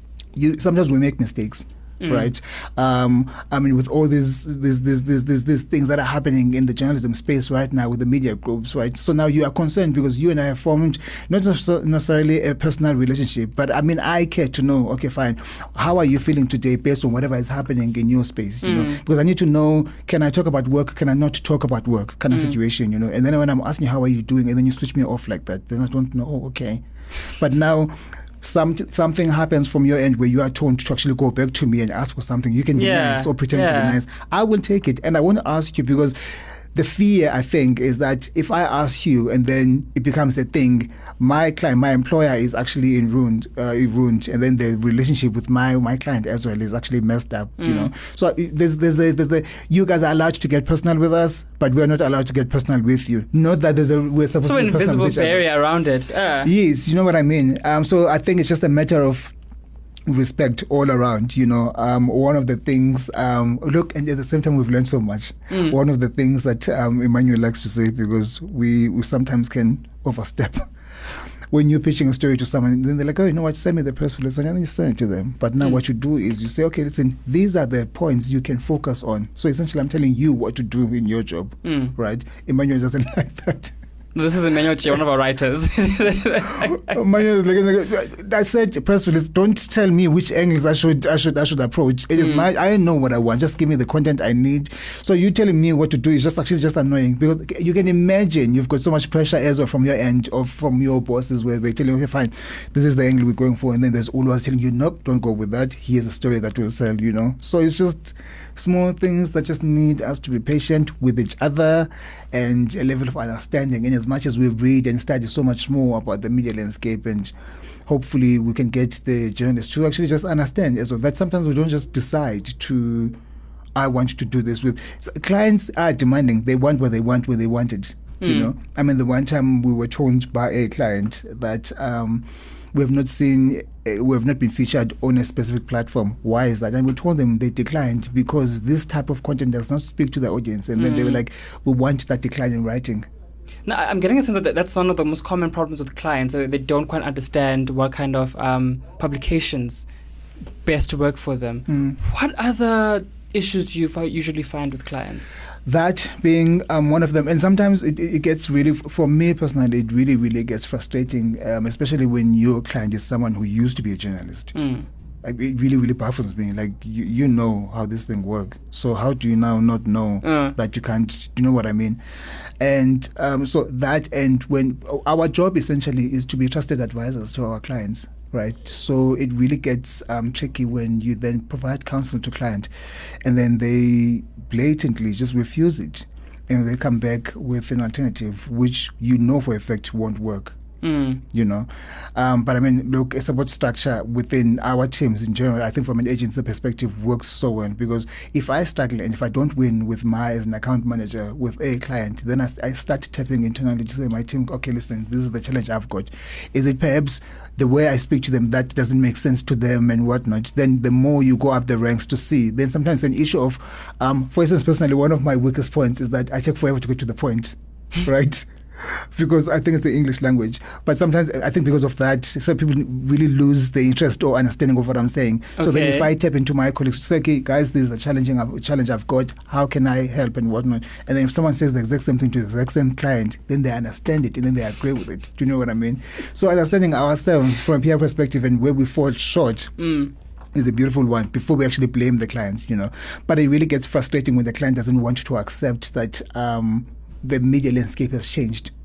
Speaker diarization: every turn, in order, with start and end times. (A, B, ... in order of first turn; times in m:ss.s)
0:00.4-0:36.2 A
0:02.0-0:02.3 B
0:18.6-0:19.0 B
0:22.3-0:22.6 B
0:32.8-0:34.0 B
0:36.8-0:55.5 A
0:47.6-0:47.9 B
0:54.4-0:56.5 B
0:56.4-0:59.3 A
1:00.1-1:10.7 A
1:05.5-1:05.8 B
1:11.5-1:23.8 A
1:21.6-1:21.9 B
1:24.2-1:27.0 B
1:26.4-1:57.3 A
1:32.2-1:32.5 B
1:57.9-2:03.2 A
2:03.8-2:23.1 A
2:08.2-2:08.5 B
2:20.8-2:21.2 B
2:23.7-2:29.9 B
2:30.6-2:35.4 B
2:31.7-2:32.0 A
2:35.7-2:44.6 A
2:44.6-2:44.9 B
2:45.2-3:02.7 A
2:50.2-2:50.6 B
3:03.2-3:10.6 A
3:10.8-3:11.2 B
3:11.3-3:59.8 A
3:45.6-3:46.1 B
3:59.8-4:00.1 B
4:00.6-4:08.7 A